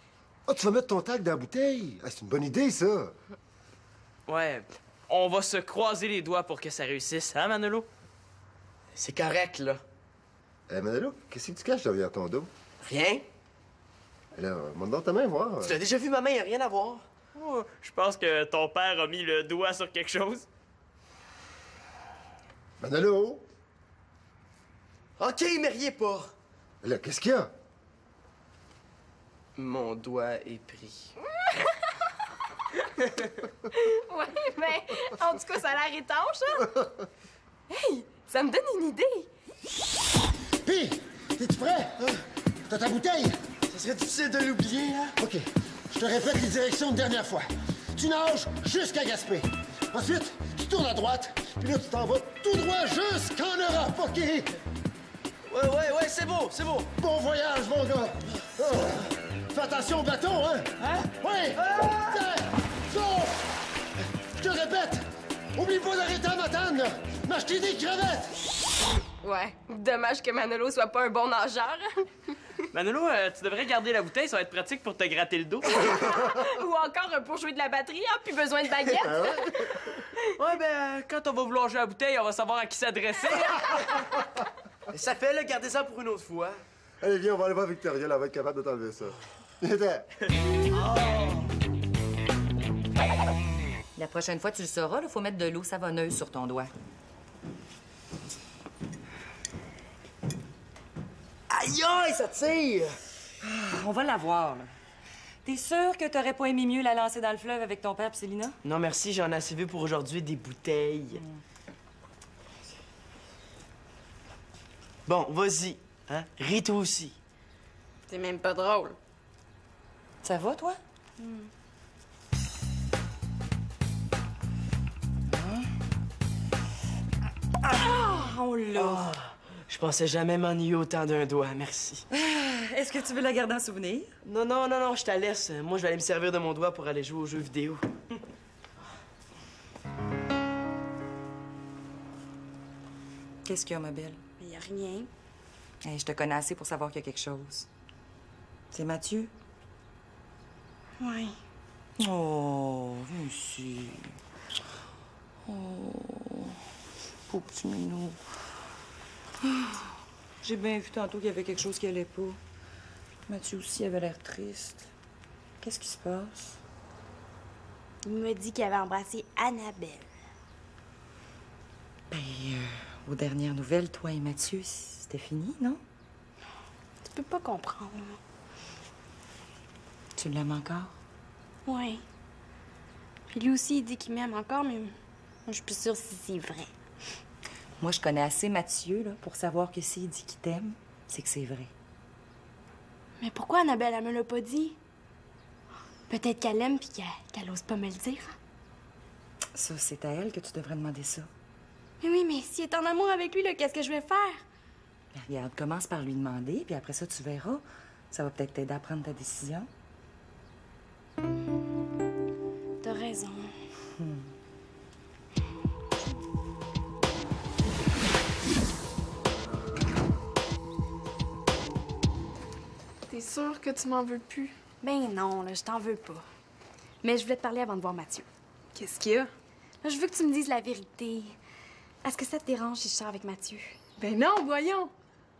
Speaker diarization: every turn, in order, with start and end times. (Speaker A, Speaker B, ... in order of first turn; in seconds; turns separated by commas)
Speaker A: 0.5-3.1, Speaker B: 4.3-7.9, Speaker C: 8.9-9.8, Speaker A: 10.7-12.5, Speaker C: 12.8-13.2, Speaker A: 14.3-15.8, Speaker C: 15.6-17.0, Speaker B: 17.3-20.4, Speaker A: 22.8-23.4, Speaker C: 25.2-26.3, Speaker A: 26.8-27.5, Speaker C: 29.6-31.1, Speaker D: 31.4-31.9, Speaker D: 33.7-36.7, Speaker D: 37.7-39.3, Speaker A: 40.6-42.0, Speaker A: 42.7-43.4, Speaker C: 43.7-45.2, Speaker A: 45.2-54.5, Speaker C: 55.5-56.9, Speaker A: 57.0-60.7, Speaker C: 60.8-62.2, Speaker A: 61.2-63.4, Speaker A: 64.3-65.0, Speaker A: 65.5-68.3, Speaker D: 69.2-72.4, Speaker B: 72.7-76.0, Speaker D: 75.7-79.7, Speaker A: 79.0-79.9, Speaker B: 80.4-84.2, Speaker C: 84.9-86.6, Speaker A: 87.0-90.0, Speaker C: 90.7-91.5, Speaker E: 94.0-96.7, Speaker C: 101.5-103.0, Speaker E: 103.4-104.7, Speaker E: 105.4-108.6, Speaker C: 108.6-111.2, Speaker E: 111.1-111.4, Speaker C: 115.1-117.2, Speaker F: 118.1-119.0, Speaker E: 120.2-120.8, Speaker F: 121.2-121.5, Speaker E: 125.3-125.7, Speaker E: 127.7-129.1, Speaker C: 128.8-132.0, Speaker E: 132.1-134.1, Speaker C: 134.2-137.8, Speaker E: 143.4-144.2, Speaker F: 144.4-145.1, Speaker E: 145.8-147.7, Speaker E: 148.7-149.3, Speaker F: 151.0-151.3, Speaker E: 152.0-154.1, Speaker E: 155.4-156.5, Speaker E: 157.3-158.2, Speaker E: 159.4-159.8, Speaker E: 160.4-162.4, Speaker E: 163.3-164.9, Speaker E: 165.6-166.6, Speaker F: 168.0-170.1, Speaker E: 172.1-175.8, Speaker F: 177.0-178.2, Speaker E: 180.2-180.9, Speaker F: 181.7-182.0, Speaker F: 183.3-184.9, Speaker F: 185.4-186.7, Speaker E: 187.8-191.7, Speaker F: 193.2-194.8, Speaker F: 196.1-198.3, Speaker E: 199.5-201.3, Speaker F: 202.0-204.4, Speaker E: 205.1-209.7, Speaker F: 212.8-213.5, Speaker E: 214.0-214.3, Speaker G: 223.1-224.5, Speaker F: 224.8-226.3, Speaker F: 227.0-228.2, Speaker G: 228.7-229.3, Speaker F: 229.8-231.3, Speaker F: 232.0-233.8, Speaker G: 234.0-234.9